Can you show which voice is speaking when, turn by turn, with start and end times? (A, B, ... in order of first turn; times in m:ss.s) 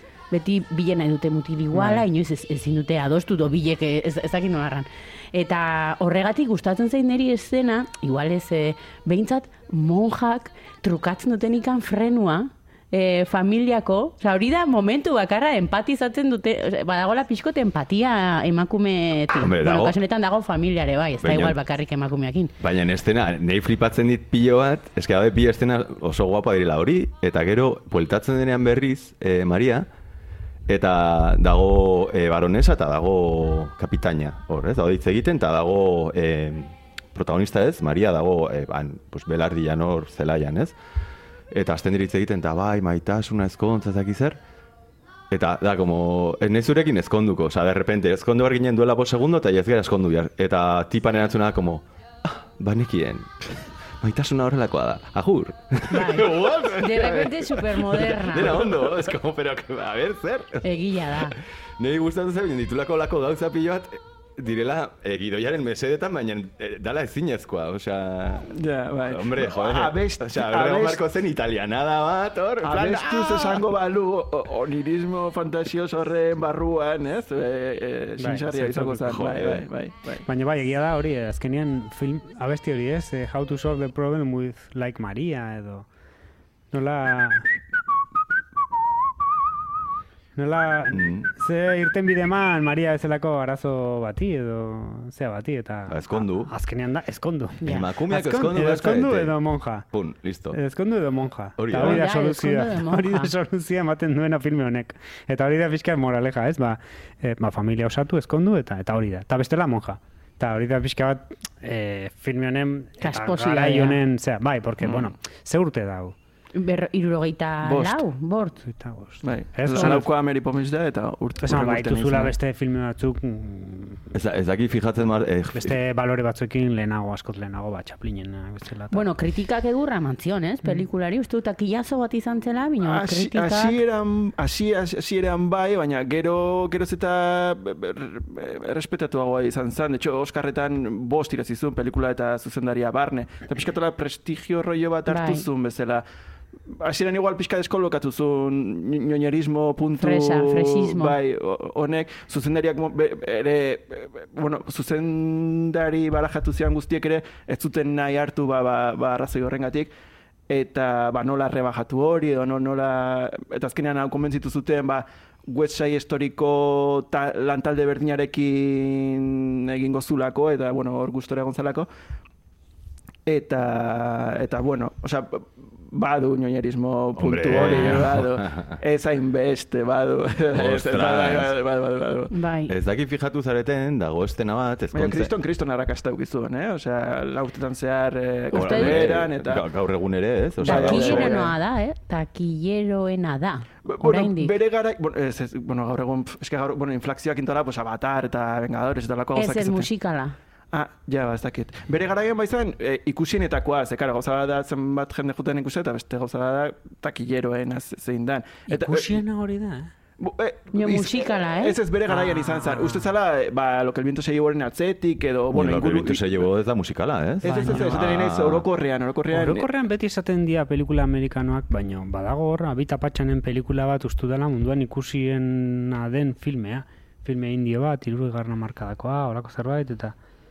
0:00.3-0:22.5 A
0:19.4-0:20.0 B
0:21.2-0:21.6 B
0:22.6-0:29.9 B
0:30.7-0:40.7 B
0:41.5-0:44.4 B
0:45.3-1:01.1 B
0:55.9-0:58.8 A
1:00.6-1:01.3 A
1:01.8-1:08.5 B
1:08.5-1:11.0 C
1:09.0-1:13.6 B
1:12.6-1:20.3 C
1:12.7-1:13.2 D
1:18.2-1:19.0 D
1:18.9-1:19.7 B
1:20.2-1:25.9 D
1:26.7-1:27.5 D
1:30.3-1:39.9 D
1:30.9-1:31.3 B
1:35.9-1:36.5 B
1:37.6-1:37.9 A
1:37.6-1:40.6 B
1:40.5-1:56.1 D
1:41.6-1:42.0 B
1:41.7-1:43.3 A
1:53.0-1:54.0 A
1:54.8-1:55.1 C
1:56.5-1:58.6 A
1:57.6-1:58.0 C
1:58.6-2:00.1 D
1:59.2-2:02.3 C
2:01.4-2:04.0 D
2:04.1-2:05.8 B
2:05.5-2:09.1 D
2:08.9-2:13.8 A
2:12.8-2:26.0 C
2:25.0-2:25.4 A
2:26.7-2:39.9 C
2:30.0-2:31.2 A
2:40.5-2:51.9 C
2:53.2-3:02.3 C
2:57.1-2:58.8 B
3:00.5-3:01.5 B
3:02.3-3:02.7 A
3:02.7-3:05.3 B
3:04.9-3:09.6 C
3:08.5-3:09.1 A
3:08.5-3:11.4 B
3:10.6-3:11.6 C
3:10.6-3:14.5 A
3:13.8-3:19.9 C
3:19.3-3:20.4 A
3:20.7-3:29.2 C
3:28.7-3:29.9 D
3:30.2-3:36.4 C
3:30.7-3:31.8 A
3:32.1-3:33.1 D
3:35.5-3:38.7 B
3:37.4-3:39.7 C
3:37.4-3:38.0 D
3:39.3-3:50.2 D